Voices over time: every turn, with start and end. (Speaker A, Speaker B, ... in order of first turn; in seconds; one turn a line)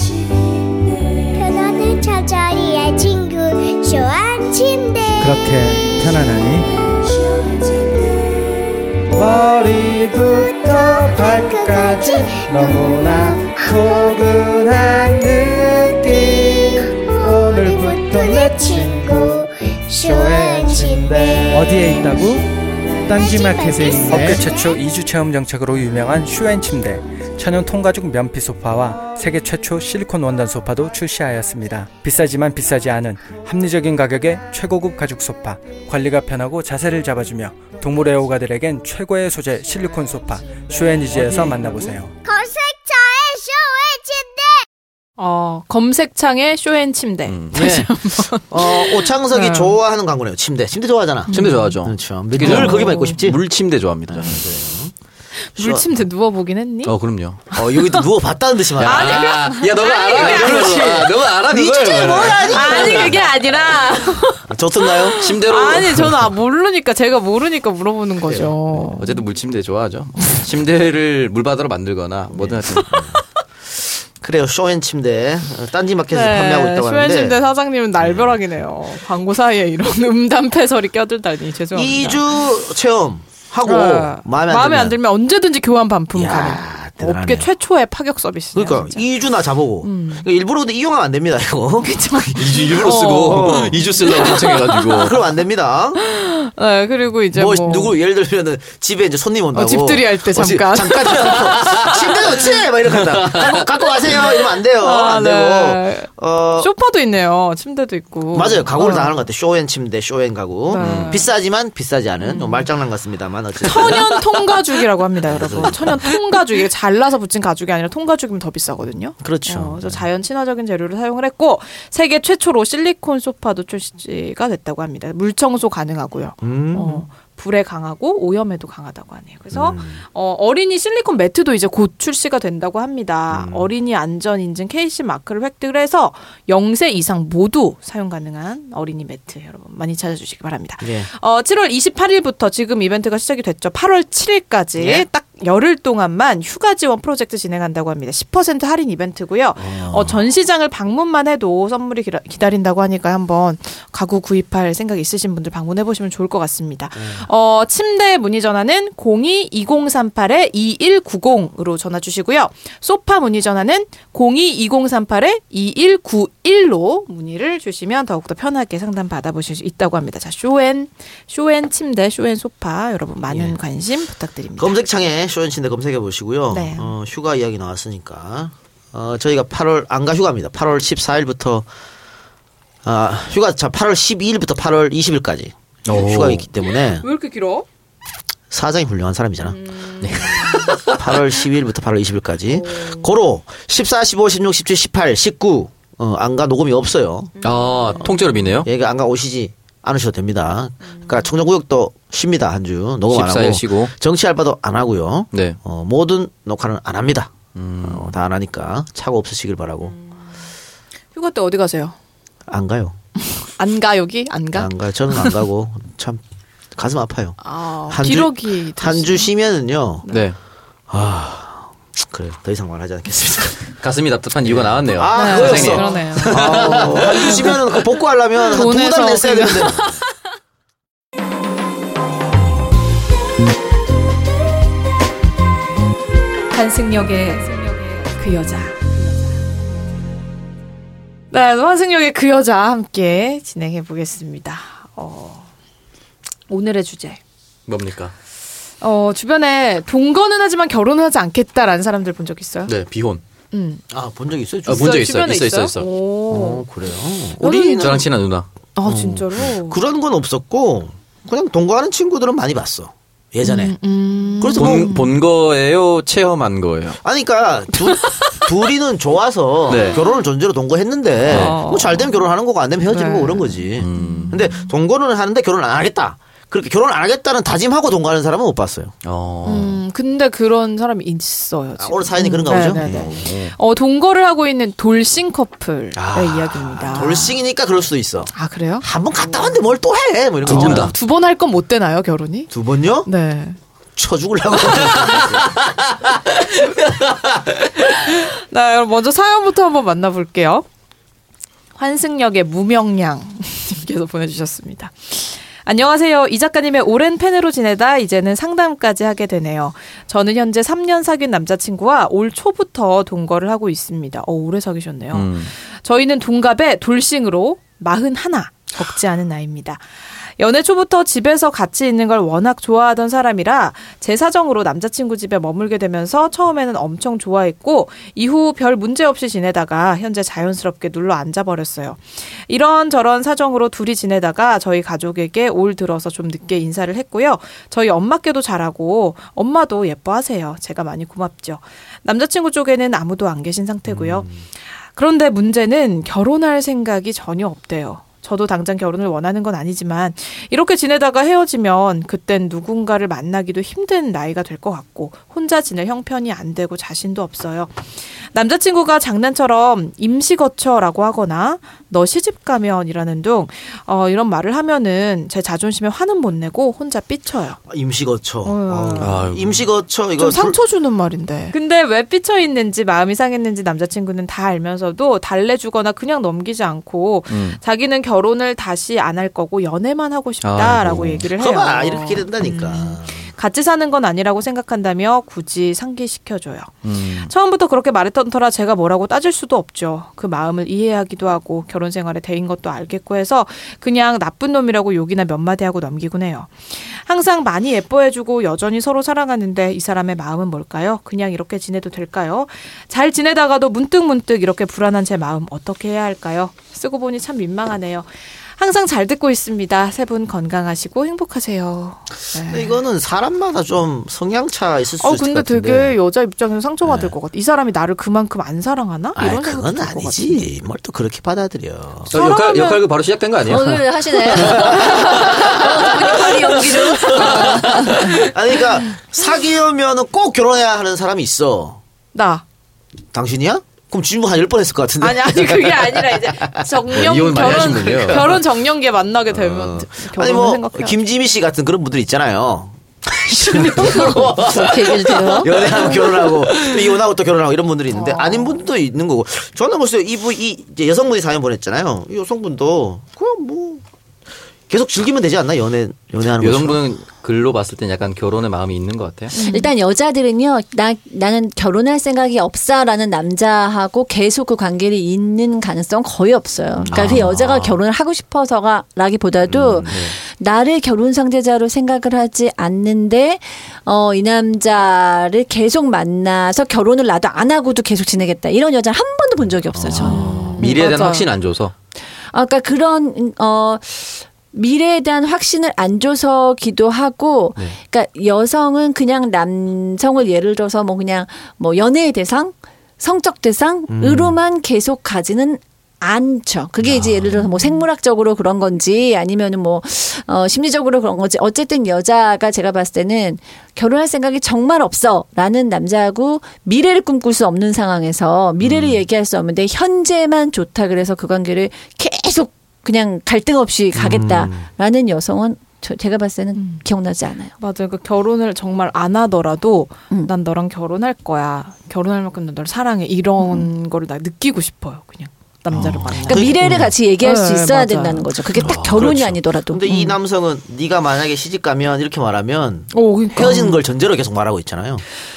Speaker A: 1.3-5.4
Speaker B: 5.2-6.8
Speaker B: 9.2-19.4
Speaker A: 10.3-14.8
Speaker A: 16.8-22.1
Speaker B: 19.9-22.5
Speaker A: 23.0-24.8
Speaker B: 23.1-42.1
Speaker C: 41.1-42.0
Speaker A: 42.2-44.6
Speaker D: 45.2-49.8
Speaker E: 47.3-47.8
Speaker C: 47.5-53.4
Speaker D: 51.3-51.8
Speaker E: 51.3-54.4
Speaker D: 52.4-53.2
Speaker C: 54.1-54.9
Speaker D: 55.5-57.0
Speaker C: 55.6-55.9
Speaker E: 56.8-57.5
Speaker D: 57.5-58.0
Speaker C: 57.5-59.4
Speaker E: 58.8-63.3
Speaker D: 58.8-61.0
Speaker C: 60.1-63.3
Speaker D: 62.0-69.2
Speaker C: 64.4-65.4
Speaker E: 65.2-66.3
Speaker C: 68.3-68.5
Speaker E: 69.0-73.0
Speaker C: 72.3-73.2
Speaker D: 72.7-73.1
Speaker C: 74.2-77.4
Speaker D: 76.1-82.4
Speaker C: 78.0-78.4
Speaker C: 81.7-85.0
Speaker D: 83.7-89.0
Speaker C: 86.1-87.5
Speaker C: 88.5-96.0
Speaker D: 89.8-90.3
Speaker D: 91.8-95.2
Speaker E: 92.4-95.2
Speaker D: 96.0-98.0
Speaker C: 97.3-106.7
Speaker D: 99.5-102.6
Speaker E: 101.4-102.2
Speaker E: 102.9-103.7
Speaker D: 104.1-109.1
Speaker C: 108.3-114.5
Speaker D: 110.7-111.3
Speaker E: 110.7-111.2
Speaker D: 112.2-112.7
Speaker D: 113.6-174.8
Speaker C: 115.2-116.2
Speaker C: 119.2-120.0
Speaker C: 126.4-127.1
Speaker C: 129.5-130.0
Speaker C: 133.3-133.7
Speaker C: 140.8-141.1
Speaker C: 144.8-145.1
Speaker C: 149.6-150.2
Speaker C: 157.0-157.3
Speaker C: 173.3-173.6
Speaker C: 174.6-181.7
Speaker D: 176.5-176.9
Speaker C: 182.8-187.1
Speaker E: 185.9-186.4
Speaker D: 186.7-187.7
Speaker C: 188.5-189.6
Speaker D: 189.4-190.7
Speaker E: 190.0-191.2
Speaker C: 190.8-197.3
Speaker D: 192.5-193.1
Speaker D: 197.4-198.2
Speaker E: 197.4-198.7
Speaker C: 198.6-209.9
Speaker E: 203.1-203.9
Speaker E: 207.6-208.1
Speaker D: 211.2-212.0
Speaker C: 212.5-213.0
Speaker D: 213.2-215.4
Speaker C: 214.5-216.2
Speaker C: 216.7-220.1
Speaker D: 217.4-219.3
Speaker E: 220.1-220.4
Speaker C: 220.9-223.8
Speaker E: 223.8-227.5
Speaker C: 224.4-229.9
Speaker D: 225.1-227.6
Speaker D: 228.4-230.0
Speaker D: 236.5-239.3
Speaker D: 241.3-245.5
Speaker D: 246.5-247.2
Speaker E: 247.7-248.1
Speaker D: 248.8-252.7
Speaker E: 252.7-253.2
Speaker D: 253.5-253.8
Speaker C: 253.9-255.1
Speaker E: 254.7-255.9
Speaker D: 254.7-256.7
Speaker C: 256.3-258.1
Speaker D: 257.4-258.1
Speaker E: 257.7-258.5
Speaker D: 258.8-259.8
Speaker C: 258.8-263.8
Speaker D: 263.4-265.2
Speaker C: 264.4-265.0
Speaker E: 264.6-267.0
Speaker C: 267.0-278.9
Speaker E: 269.7-270.0
Speaker D: 269.7-270.0
Speaker D: 271.2-272.3
Speaker E: 271.3-271.6
Speaker D: 272.9-274.7
Speaker E: 273.8-274.4
Speaker E: 279.0-279.8
Speaker D: 279.4-287.4
Speaker C: 281.8-283.3
Speaker E: 282.7-283.5
Speaker C: 285.9-290.9
Speaker D: 288.3-288.9
Speaker D: 290.4-292.5
Speaker E: 290.5-290.9
Speaker C: 292.5-293.1
Speaker D: 293.0-293.6
Speaker C: 294.0-295.6
Speaker E: 296.4-297.5
Speaker D: 298.0-300.6
Speaker D: 301.8-319.8
Speaker E: 315.1-315.5
Speaker D: 320.4-344.4
Speaker C: 343.9-344.4
Speaker D: 344.9-367.6
Speaker C: 367.7-370.6
Speaker D: 368.4-369.3
Speaker E: 369.0-369.7
Speaker D: 370.2-412.8
Speaker E: 377.3-377.6
Speaker E: 380.4-381.2
Speaker C: 381.0-383.3
Speaker E: 386.8-387.3
Speaker C: 412.4-416.0
Speaker D: 415.0-420.5
Speaker C: 416.9-417.1
Speaker C: 419.1-422.1
Speaker E: 422.1-428.1
Speaker D: 422.1-422.8
Speaker F: 423.5-427.9
Speaker C: 424.5-425.4
Speaker C: 426.4-431.8
Speaker D: 427.0-427.9
Speaker D: 432.1-432.4
Speaker C: 433.1-438.4
Speaker D: 435.0-441.0
Speaker E: 436.9-438.4
Speaker C: 439.3-453.8
Speaker D: 443.2-446.8
Speaker F: 444.1-445.5
Speaker D: 447.9-448.6
Speaker C: 454.7-456.8
Speaker E: 456.4-459.4
Speaker D: 459.3-459.7
Speaker F: 459.3-480.4
Speaker C: 466.9-467.3
Speaker E: 466.9-467.8
Speaker C: 469.5-470.0
Speaker E: 469.9-470.1
Speaker C: 479.8-480.6
Speaker E: 479.9-481.7
Speaker D: 480.0-481.3
Speaker F: 482.3-517.5
Speaker C: 493.9-494.4
Speaker C: 496.9-497.3
Speaker C: 508.6-509.0
Speaker C: 514.0-514.7
Speaker D: 516.6-516.8
Speaker D: 517.6-526.6
Speaker F: 523.4-523.7
Speaker C: 525.7-526.9
Speaker E: 525.7-526.9
Speaker F: 526.3-530.1
Speaker D: 527.2-528.3
Speaker E: 528.5-529.3
Speaker C: 528.6-535.0
Speaker D: 532.9-533.8